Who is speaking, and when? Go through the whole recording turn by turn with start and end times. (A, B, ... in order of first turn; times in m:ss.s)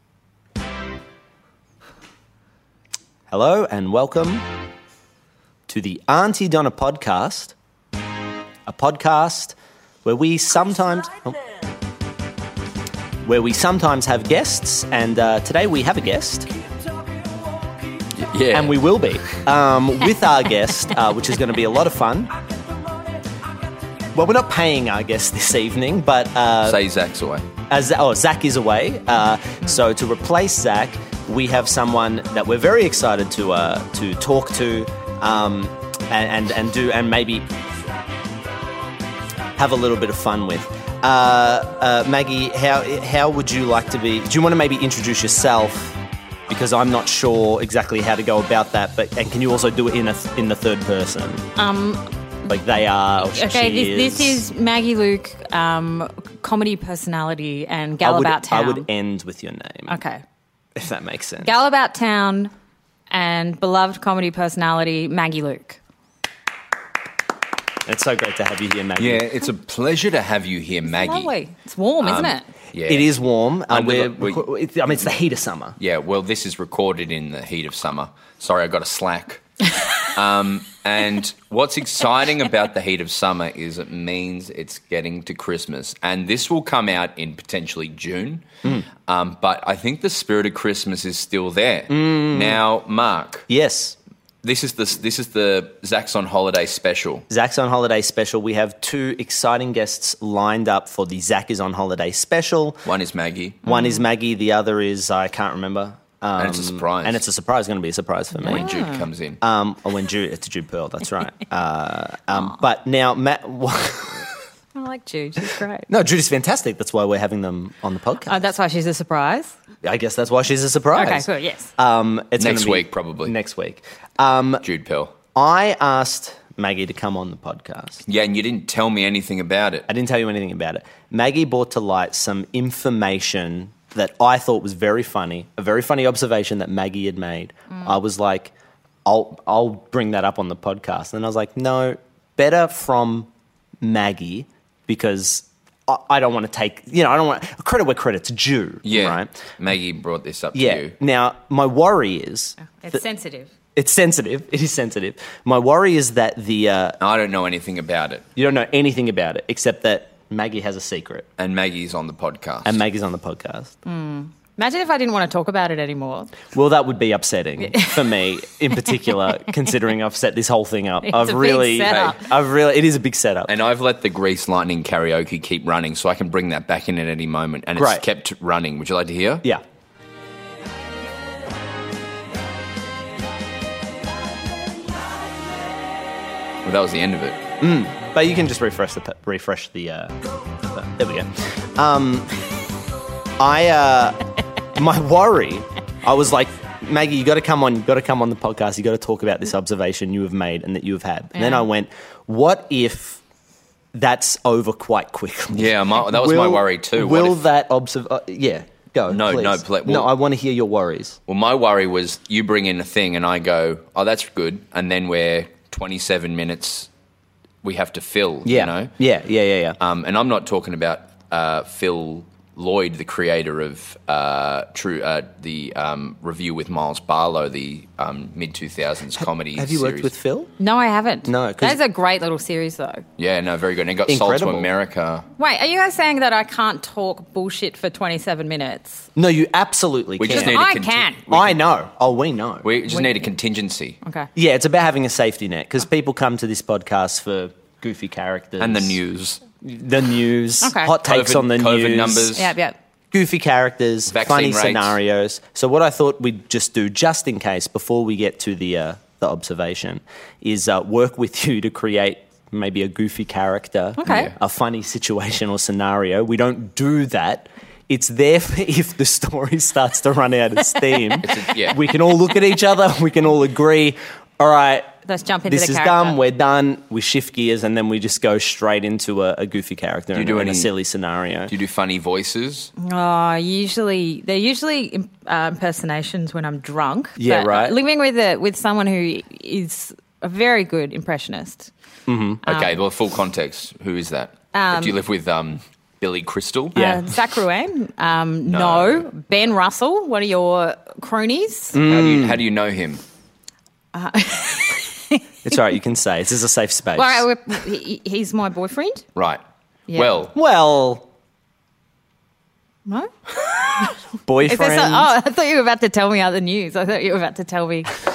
0:03.3-0:04.4 A
0:05.7-0:07.6 A
0:08.7-0:11.4 A
0:13.2-0:16.5 A
0:18.2-0:18.8 B
0:18.5-0:22.3 A
0:24.1-0:26.8 A
0:26.6-0:27.5 B
0:27.7-0:37.5 A
0:39.6-0:51.5 A
0:51.6-0:52.5 C
0:52.5-0:54.4 A
0:53.2-0:58.9 C
0:58.0-1:00.0 A
0:59.9-1:00.2 C
1:00.8-1:01.6 A
1:01.4-1:02.5 C
1:03.1-1:05.8 C
1:07.9-1:09.3 A
1:09.0-1:11.3 B
1:10.9-1:12.5 C
1:12.0-1:13.1 B
1:12.9-1:15.8 A
1:13.7-1:14.4 B
1:15.8-1:19.4 B
1:20.0-1:28.4 B
1:29.0-1:33.5 B
1:31.9-1:32.6 A
1:33.5-1:34.0 A
1:34.4-1:37.3 B
1:37.3-1:42.9 A
1:42.9-1:43.6 B
1:43.7-1:48.7 A
1:43.7-1:44.0 C
1:46.4-1:47.2 B
1:48.4-1:49.4 B
1:48.4-1:49.1 C
1:49.4-1:54.3 A
1:54.8-1:55.9 C
1:55.9-1:58.4 A
1:58.3-1:59.5 C
1:59.8-2:04.6 A
2:00.9-2:01.7 C
2:02.4-2:03.3 B
2:04.6-2:05.1 B
2:05.4-2:08.0 A
2:08.1-2:09.9 B
2:09.9-2:18.5 A
2:19.0-2:23.3 A
2:23.8-2:29.3 A
2:28.8-2:30.9 B
2:30.5-2:33.0 A
2:32.6-2:33.5 C
2:33.8-2:37.0 A
2:37.0-2:38.3 B
2:38.4-2:41.3 A
2:41.4-2:42.8 B
2:42.6-2:43.7 A
2:43.9-2:46.3 C
2:46.5-2:53.5 A
2:47.6-2:48.0 C
2:51.0-2:52.2 C
2:51.9-2:52.2 B
2:53.5-2:59.5 B
2:57.8-2:58.0 A
3:06.6-3:07.4 B
3:07.6-3:12.4 A
3:13.4-3:14.2 A
3:14.8-3:23.2 A
3:21.4-3:21.7 C
3:23.9-3:31.2 A
3:25.5-3:27.4 B
3:29.1-3:30.1 B
3:31.3-3:36.9 B
3:37.6-3:38.9 B
3:38.4-3:39.8 A
3:39.8-3:50.1 B
3:49.6-3:50.5 A
3:50.6-3:53.0 C
3:51.3-3:51.8 A
3:53.2-3:55.3 B
3:54.1-3:54.7 A
3:55.4-3:59.1 C
3:59.2-4:00.6 A
4:00.2-4:01.6 B
4:00.3-4:01.2 C
4:01.3-4:02.7 A
4:02.6-4:04.0 B
4:04.0-4:04.3 C
4:04.4-4:09.0 A
4:08.6-4:09.4 B
4:09.6-4:12.4 A
4:10.6-4:11.0 C
4:11.0-4:12.5 B
4:12.3-4:12.8 C
4:13.1-4:34.9 A
4:14.1-4:15.0 B
4:24.0-4:24.3 C
4:24.1-4:24.3 B
4:31.2-4:31.9 B
4:35.1-4:36.2 C
4:35.5-4:41.5 A
4:40.1-4:40.7 B
4:41.5-4:42.7 B
4:42.8-4:51.7 C
4:47.2-4:47.8 A
4:52.1-4:52.4 A
4:52.4-4:52.8 C
4:52.5-4:56.8 B
4:54.5-4:55.0 C
4:56.8-4:57.0 A
4:56.8-5:01.8 C
4:58.5-4:59.1 B
5:01.7-5:02.4 A
5:01.8-5:03.0 B
5:03.9-5:05.2 C
5:05.4-5:07.2 A
5:07.0-5:09.0 C
5:09.2-5:09.4 B
5:09.9-5:10.2 C
5:09.9-5:10.3 B
5:10.3-5:11.1 A
5:12.9-5:18.0 C
5:14.3-5:15.1 A